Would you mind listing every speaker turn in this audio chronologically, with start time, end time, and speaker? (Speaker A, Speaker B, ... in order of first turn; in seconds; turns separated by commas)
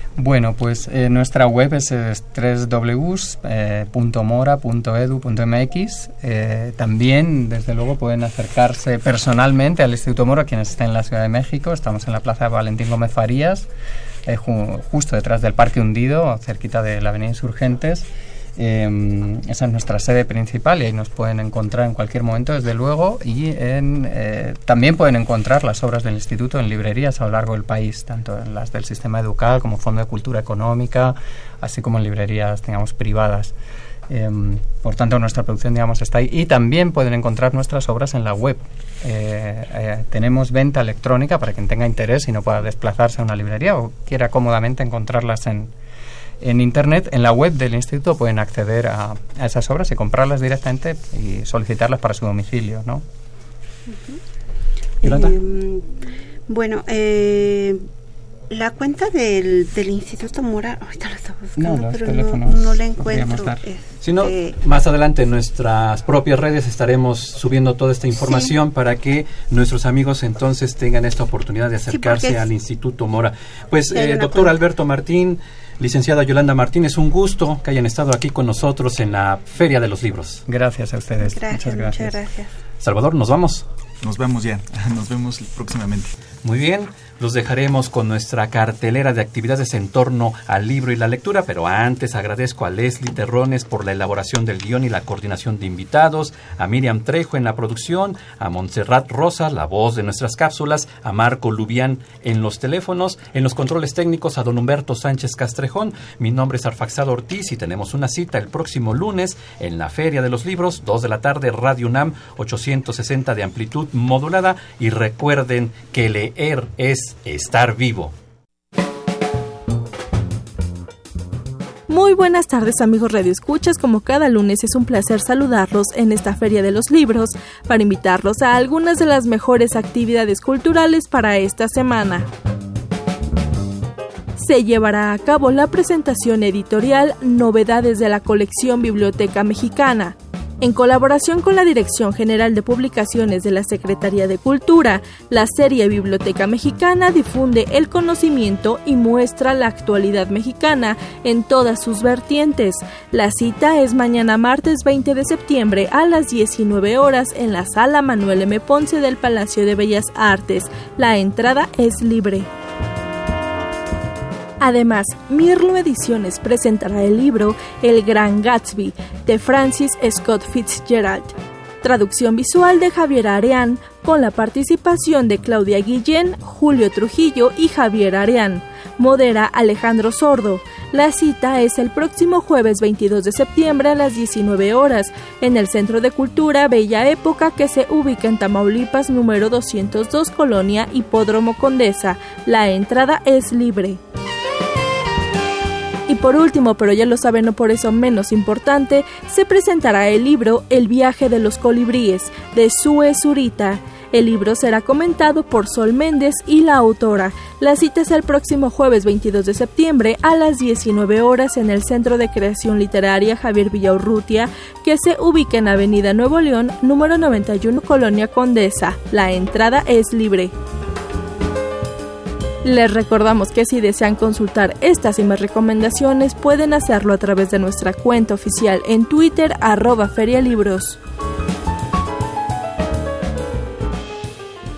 Speaker A: 0.1-13.7, Speaker A: 14.2-33.5, Speaker A: 34.1-45.7, Speaker A: 46.4-53.0, Speaker B: 53.9-54.2, Speaker B: 55.0-55.9, Speaker C: 55.0-55.4, Speaker B: 56.5-57.8, Speaker B: 58.5-64.5, Speaker A: 61.5-63.6, Speaker C: 64.0-80.4, Speaker B: 68.2-68.5, Speaker B: 71.9-72.4, Speaker B: 73.9-74.5, Speaker A: 80.5-82.1, Speaker B: 81.2-82.5, Speaker C: 82.8-83.7, Speaker D: 84.0-86.1, Speaker C: 86.4-118.1, Speaker E: 121.9-132.3, Speaker E: 134.3-162.5, Speaker E: 164.6-194.0, Speaker E: 196.1-220.5, Speaker E: 222.6-231.0